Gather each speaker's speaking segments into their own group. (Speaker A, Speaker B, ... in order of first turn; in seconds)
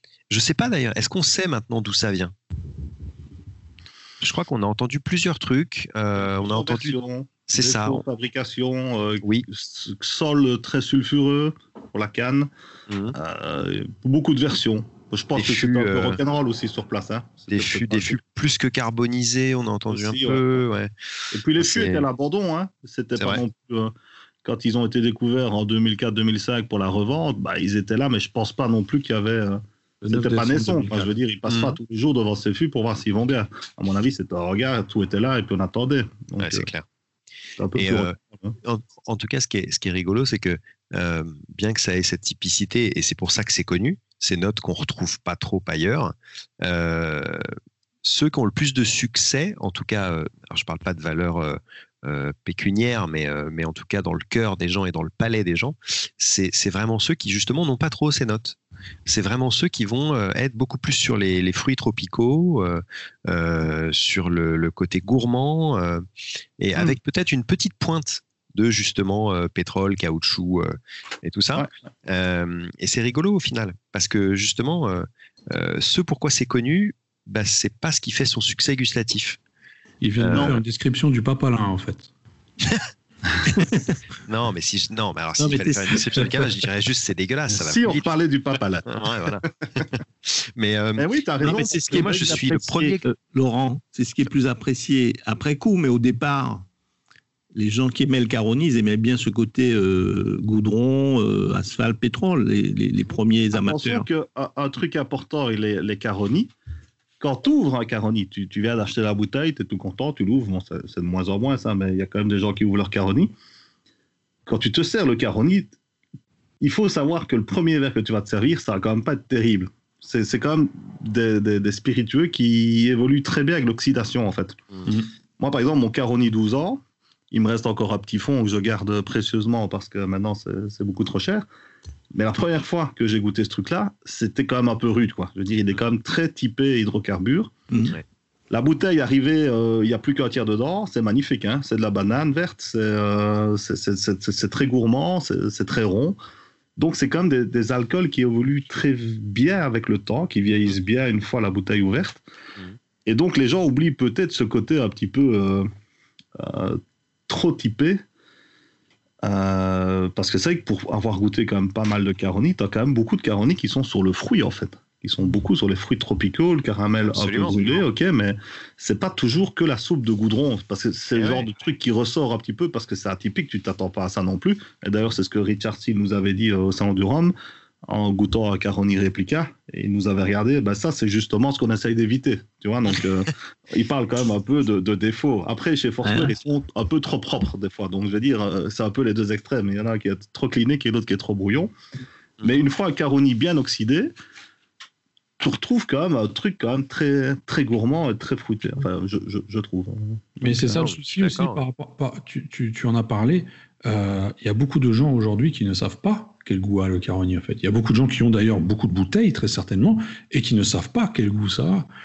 Speaker A: 0.3-2.3, 4.2-8.0, 12.9-13.2, 15.3-16.2, 17.5-20.9, 21.6-22.1, 31.5-31.8, 36.4-36.9, 37.7-47.5, 48.0-66.0, 66.6-79.4, 80.2-80.6, 84.2-88.1, 88.9-93.0, 167.1-167.8, 171.1-171.5, 200.7-201.6
Speaker B: 6.3-12.5, 13.1-18.2, 19.9-20.6, 21.3-23.9, 24.4-36.7, 37.6-38.5, 87.5-89.9, 91.0-93.0, 103.5-106.5, 107.2-113.3, 114.5-115.7, 116.6-131.5, 132.1-137.5, 138.5-146.2, 146.8-152.2, 153.1-155.7, 156.4-158.0, 159.2-177.3, 177.9-191.7, 192.4-194.1, 195.4-200.9
Speaker C: 30.0-31.1, 80.0-82.1, 200.4-211.9
Speaker D: 83.6-83.8, 85.4-86.4, 91.4-96.7, 97.5-104.0, 137.7-137.9, 186.0-186.3